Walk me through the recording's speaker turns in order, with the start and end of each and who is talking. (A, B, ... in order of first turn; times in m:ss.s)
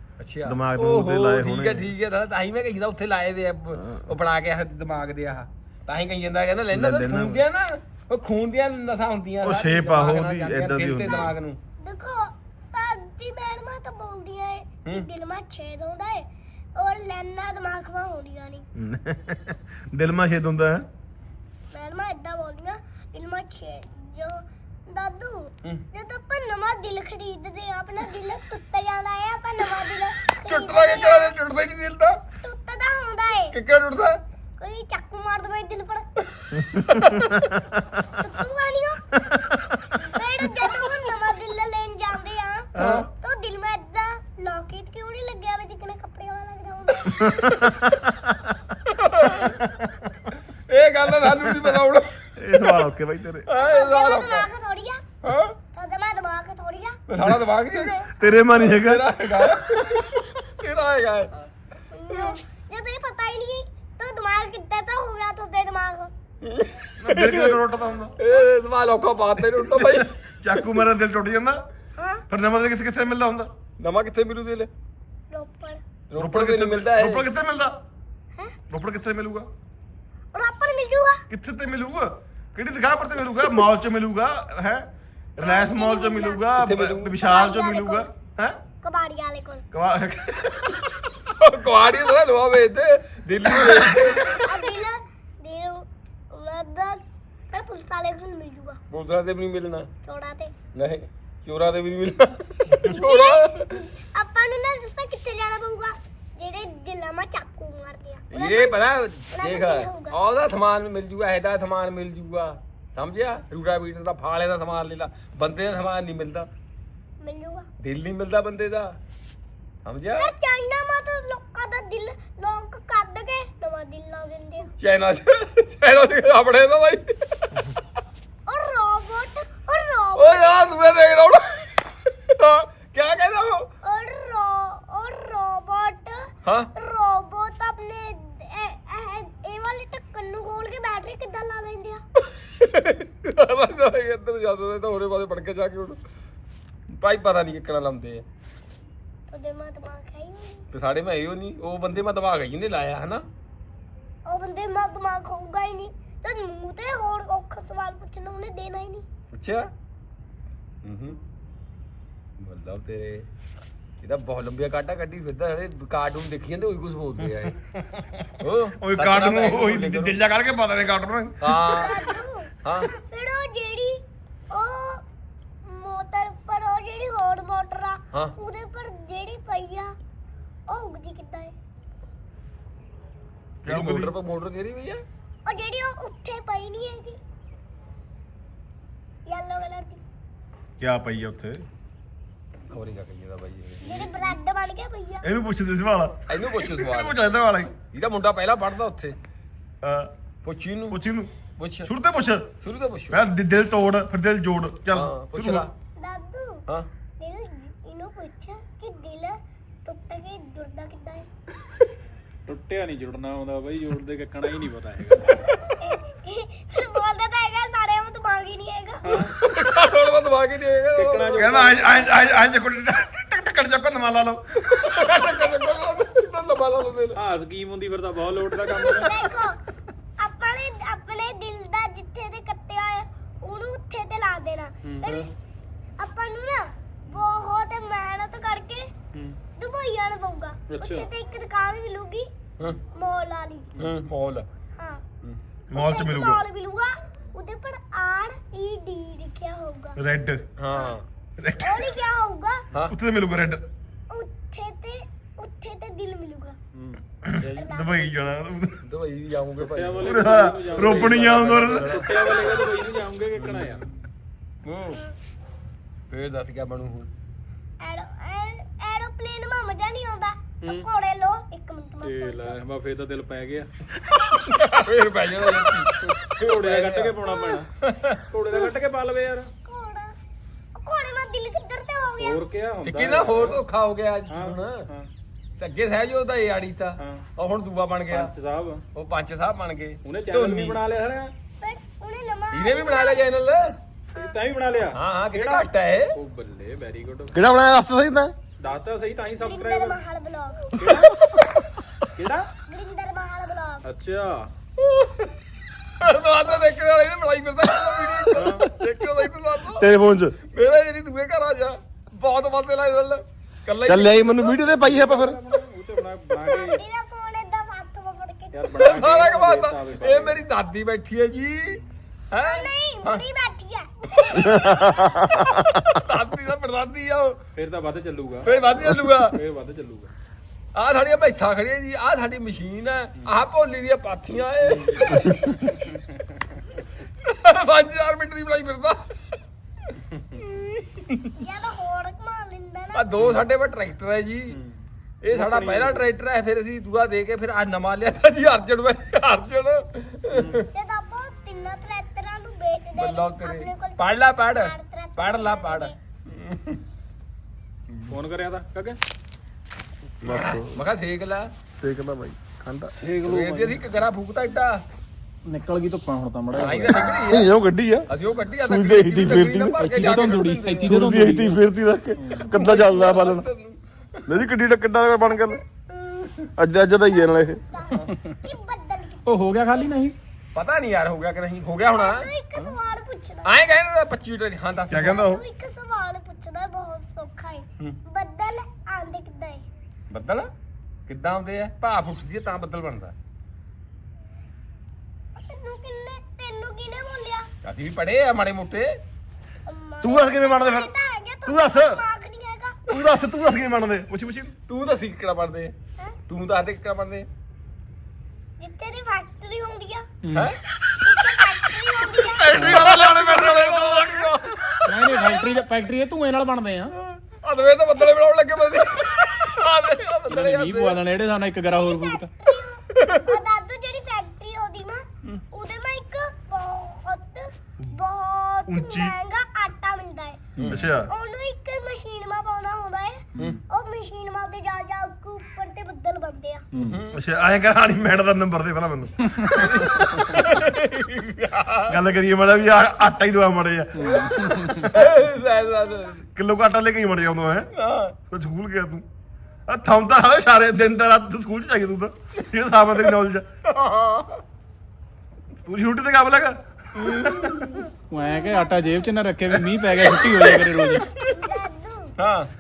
0:00.2-0:11.6 A
0:00.4-0:01.9 B
0:06.7-0:07.4 B
0:09.4-0:11.3 B
0:11.1-0:18.7 C
0:18.8-0:20.9 B
0:21.7-0:31.4 C
0:30.4-0:32.2 A
0:32.4-0:33.6 C
0:33.5-0:34.2 A
0:34.6-0:37.5 C
0:36.7-0:37.8 B
0:38.2-0:39.1 C
0:39.2-0:40.7 B
0:40.0-0:47.8 C
0:42.8-0:43.1 B
0:42.8-0:43.0 A
0:47.0-0:47.5 A
0:47.2-0:48.6 B
0:48.9-0:49.6 A
0:49.4-0:50.3 B
0:50.7-0:52.9 A
0:51.1-0:51.8 B
0:52.4-0:53.5 B
0:53.5-0:54.5 A
0:53.5-0:55.0 C
0:55.2-0:55.6 A
0:55.7-0:57.0 C
0:57.1-0:58.0 A
0:57.7-0:58.1 C
0:58.2-0:59.1 B
0:58.5-1:01.4 A
0:59.6-1:00.3 C
1:01.9-1:06.1 C
1:02.1-1:02.4 A
1:06.4-1:07.6 A
1:07.0-1:08.2 B
1:08.2-1:10.8 A
1:09.5-1:11.6 B
1:12.0-1:12.2 C
1:12.3-1:13.5 B
1:13.8-1:14.7 A
1:15.3-1:15.8 C
1:16.1-1:17.3 A
1:16.2-1:17.7 B
1:18.7-1:19.5 B
1:20.3-1:21.2 C
1:21.3-1:28.6 B
1:25.4-1:26.4 C
1:26.6-1:27.1 A
1:27.1-1:28.1 C
1:28.8-1:29.6 C
1:29.7-1:30.9 B
1:31.4-1:34.6 A
1:33.5-1:34.2 B
1:34.2-1:38.8 C
1:38.9-1:39.9 A
1:40.0-1:40.5 C
1:40.8-1:43.8 A
1:42.7-1:48.8 C
1:48.3-1:56.5 A
1:49.3-1:50.2 C
1:57.2-1:57.7 C
1:57.8-1:59.0 A
1:59.9-2:00.3 A
2:00.2-2:04.7 C
2:04.8-2:07.6 A
2:08.5-2:10.7 C
2:10.2-2:13.7 A
2:13.8-2:22.0 C
2:16.4-2:16.7 A
2:22.3-2:26.0 A
2:27.0-2:28.2 A
2:29.3-2:30.7 C
2:30.7-2:33.3 A
2:34.3-2:39.0 C
2:39.3-2:39.7 A
2:40.8-2:41.2 A
2:42.4-2:43.3 A
2:44.0-2:47.6 A
2:47.3-2:48.3 B
2:48.4-2:50.2 A
2:48.8-2:51.8 B
2:51.4-2:52.1 A
2:51.6-2:54.0 C
2:52.6-2:52.9 A
2:54.5-2:55.0 C
2:55.6-3:00.0 C
3:00.7-3:01.5 C
3:03.6-3:04.1 B
3:03.6-3:05.0 A
3:05.5-3:07.2 C
3:09.3-3:10.0 C
3:10.8-3:11.6 B
3:12.7-3:14.4 A
3:13.8-3:15.3 C
3:15.2-3:17.7 B
3:16.3-3:17.2 A
3:17.9-3:19.2 A
3:19.8-3:20.1 B
3:20.4-3:21.0 A
3:20.9-3:21.3 B
3:21.6-3:21.9 A
3:21.9-3:22.5 B
3:22.6-3:23.3 A
3:23.1-3:25.7 B
3:24.9-3:25.7 A
3:26.0-3:26.6 C
3:27.2-3:31.3 C
3:32.5-3:35.5 D
3:35.5-3:39.3 C
3:39.0-3:39.3 D
3:39.4-3:41.8 A
3:41.0-3:42.1 D
3:41.4-3:44.4 B
3:44.7-3:47.2 A
3:44.8-3:45.7 C
3:47.2-3:49.4 D
3:48.6-3:49.6 C
3:50.2-3:55.3 C
3:54.8-3:55.3 D
3:56.0-3:58.9 C
3:59.6-4:02.3 C
4:00.7-4:01.1 D
4:02.9-4:03.8 C
4:03.8-4:04.5 A
4:05.7-4:06.4 B
4:05.7-4:10.0 C
4:10.0-4:10.4 B
4:10.6-4:11.0 A
4:11.4-4:11.9 B
4:11.6-4:12.6 C
4:12.9-4:13.6 B
4:14.1-4:16.6 C
4:16.8-4:17.0 D
4:17.2-4:18.8 B
4:17.4-4:18.0 C
4:18.8-4:22.7 A
4:19.6-4:23.9 D
4:20.0-4:22.1 B
4:22.3-4:22.8 C
4:23.4-4:24.0 A
4:24.6-4:25.0 A
4:26.1-4:27.1 A
4:27.8-4:32.6 C
4:30.6-4:30.9 D
4:32.0-4:33.7 D
4:34.4-4:37.2 A
4:36.2-4:37.7 D
4:37.8-4:38.2 A
4:38.3-4:39.5 D
4:39.6-4:40.2 C
4:40.8-4:42.4 C
4:42.2-4:43.6 D
4:42.8-4:44.9 A
4:44.3-4:45.1 D
4:45.6-4:48.3 A
4:47.0-4:47.2 D
4:48.1-4:48.8 D
4:49.0-4:50.8 A
4:50.0-4:51.3 D
4:51.6-4:53.3 C
4:52.5-4:53.8 A
4:54.2-4:57.4 D
4:54.9-4:56.2 A
4:57.3-4:58.3 B
4:58.6-5:00.0 D
4:59.4-5:00.9 C
5:00.8-5:01.3 D
5:02.1-5:02.5 D
5:02.7-5:03.8 C
5:03.8-5:04.5 D
5:04.8-5:05.3 A
5:05.8-5:09.9 A
5:08.4-5:08.7 D
5:09.8-5:10.4 B
5:10.5-5:14.6 A
5:13.9-5:15.4 B
5:14.6-5:16.8 D
5:16.4-5:19.1 C
5:18.5-5:20.4 D
5:18.8-5:21.8 A
5:22.3-5:23.2 A
5:22.4-5:25.2 C
5:24.2-5:27.4 A
5:24.4-5:25.8 B
5:27.6-5:30.1 D
5:28.4-5:29.4 A
5:30.8-5:35.8 A
5:34.7-5:35.2 D
5:37.2-5:39.2 A
5:41.0-5:41.4 A
5:41.4-5:43.4 C
5:42.9-5:44.6 A
5:44.5-5:44.8 D
5:45.2-5:50.7 A
5:45.3-5:46.1 D
5:50.3-5:50.6 D
5:50.7-5:56.0 C
5:52.9-5:56.8 A
5:58.1-5:59.0 D
6:00.2-6:00.8 B
6:00.2-6:01.5 A
6:01.8-6:02.9 B
6:02.9-6:03.8 D
6:03.2-6:04.8 A
6:05.5-6:07.2 D
6:06.5-6:07.5 A
6:07.1-6:09.8 B
6:08.1-6:11.2 A
6:09.8-6:11.6 D
6:10.8-6:13.5 B
6:12.2-6:12.5 D
6:12.5-6:14.2 A
6:14.3-6:15.6 B
6:15.9-6:16.5 C
6:16.6-6:17.6 B
6:17.1-6:19.5 C
6:17.9-6:18.4 D
6:19.3-6:20.2 D
6:20.5-6:22.3 A
6:21.9-6:23.5 C
6:23.4-6:25.3 A
6:24.9-6:25.4 B
6:25.1-6:29.6 C
6:30.1-6:30.5 A
6:31.1-6:33.1 A
6:35.4-6:37.5 C
6:37.6-6:39.0 A
6:39.7-6:42.8 C
6:40.0-6:40.9 B
6:41.4-6:42.0 B
6:42.9-6:44.6 B
6:44.7-6:45.7 A
6:46.3-6:47.3 A
6:48.6-6:50.1 C
6:50.2-6:50.5 D
6:50.3-6:50.6 A
6:50.9-6:54.1 C
6:52.1-6:54.3 B
6:52.6-6:52.8 D
6:52.6-6:54.6 A
6:54.8-6:55.6 C
6:54.9-6:57.0 D
6:57.4-7:01.0 A
6:58.8-6:59.7 C
7:00.3-7:02.3 D
7:01.8-7:16.6 C
7:03.0-7:03.4 A
7:08.7-7:09.1 B
7:10.6-7:11.1 B
7:16.7-7:17.0 D
7:16.8-7:17.2 A
7:17.1-7:20.4 B
7:19.5-7:22.0 A
7:21.9-7:24.2 B
7:24.0-7:24.9 D
7:24.0-7:26.2 A
7:25.0-7:26.2 C
7:26.2-7:27.7 B
7:27.7-7:28.2 A
7:28.3-7:29.0 B
7:29.7-7:33.5 B
7:33.6-7:34.4 A
7:35.6-7:37.4 B
7:37.0-7:37.9 A
7:38.1-7:41.2 D
7:38.2-7:39.0 C
7:39.6-7:41.3 A
7:41.1-7:42.1 C
7:42.2-7:42.5 A